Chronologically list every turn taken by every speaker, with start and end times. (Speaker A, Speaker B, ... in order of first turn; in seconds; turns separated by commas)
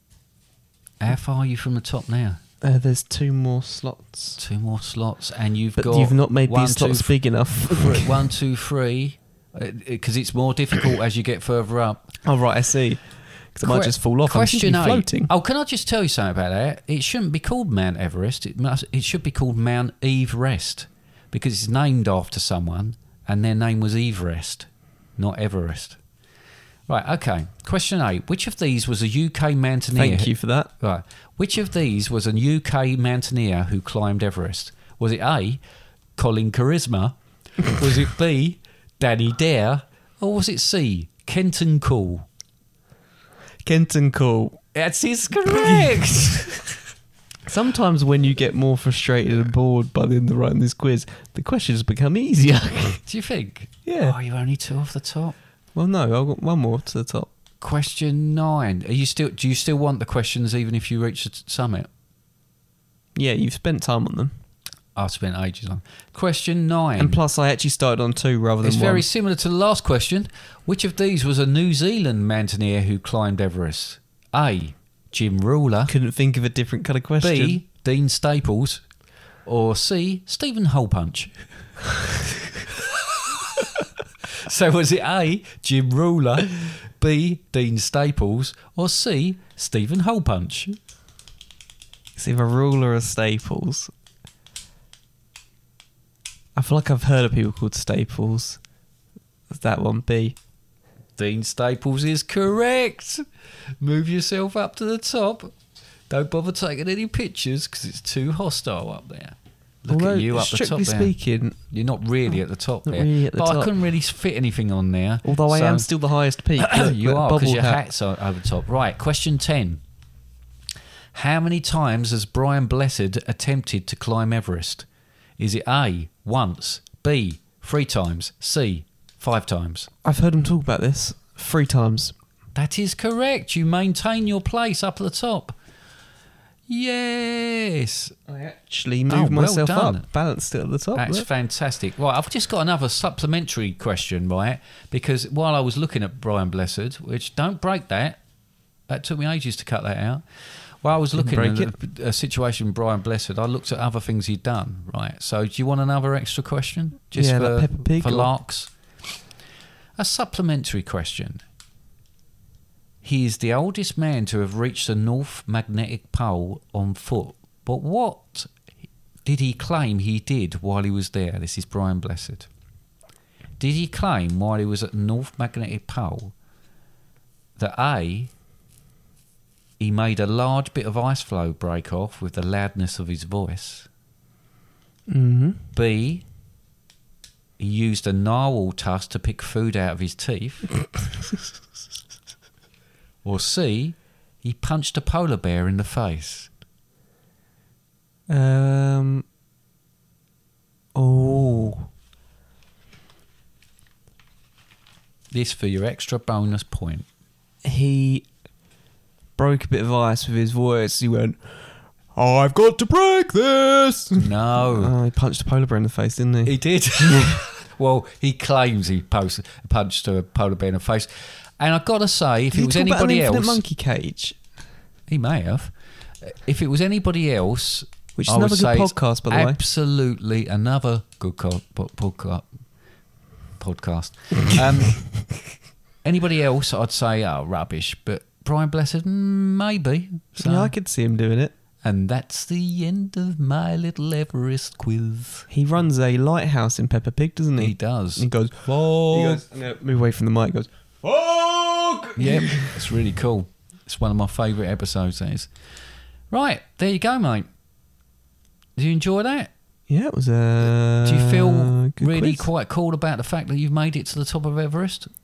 Speaker A: 1.0-2.4, Speaker B: 2.6-4.4, Speaker A: 4.4-12.1, Speaker B: 5.8-8.2, Speaker B: 12.2-15.3, Speaker A: 13.6-26.0, Speaker A: 26.9-35.6, Speaker B: 29.9-30.7, Speaker A: 36.1-42.3, Speaker B: 43.6-44.6, Speaker A: 44.7-46.8, Speaker B: 45.5-46.1, Speaker B: 47.5-53.0, Speaker A: 53.0-55.3, Speaker B: 53.9-54.1, Speaker B: 55.7-57.3, Speaker A: 57.6-61.9, Speaker B: 63.1-64.3, Speaker A: 65.0-67.2, Speaker B: 67.0-69.0, Speaker A: 68.6-75.9, Speaker B: 75.9-77.6, Speaker A: 77.2-78.8, Speaker A: 79.5-81.5, Speaker A: 84.4-90.8, Speaker B: 92.2-93.9, Speaker B: 96.5-98.6, Speaker B: 99.5-100.4, Speaker A: 101.2-103.2, Speaker A: 103.8-105.5, Speaker A: 106.1-115.9, Speaker B: 109.9-111.6, Speaker B: 112.8-113.7, Speaker B: 115.2-117.8, Speaker A: 116.6-119.8, Speaker A: 121.1-124.9, Speaker A: 125.4-129.9, Speaker B: 130.0-132.1, Speaker A: 132.5-135.6, Speaker A: 136.7-138.1, Speaker B: 138.3-141.3, Speaker A: 139.1-140.1, Speaker A: 140.9-148.2, Speaker A: 148.9-150.2, Speaker A: 150.8-158.7, Speaker B: 151.1-151.7, Speaker B: 157.1-158.3, Speaker A: 159.9-161.4, Speaker A: 163.0-168.5, Speaker A: 169.2-172.5, Speaker A: 173.6-176.3, Speaker A: 177.6-178.3, Speaker A: 179.8-183.9, Speaker B: 185.1-185.6, Speaker A: 185.7-186.2, Speaker A: 187.6-190.8, Speaker A: 193.2-196.5, Speaker B: 198.3-199.2, Speaker B: 200.9-201.9, Speaker A: 205.3-207.1, Speaker B: 207.6-208.3, Speaker B: 209.3-217.4, Speaker A: 214.1-214.9, Speaker A: 216.4-223.6, Speaker B: 222.5-224.4, Speaker A: 225.1-232.5, Speaker B: 228.2-229.6, Speaker A: 233.6-235.3, Speaker A: 236.0-240.7, Speaker B: 240.4-241.5, Speaker A: 241.8-245.5, Speaker B: 245.5-252.9, Speaker A: 247.6-249.4, Speaker A: 252.2-255.5, Speaker A: 256.3-257.5, Speaker A: 258.8-259.5, Speaker B: 259.9-262.4, Speaker A: 261.0-265.1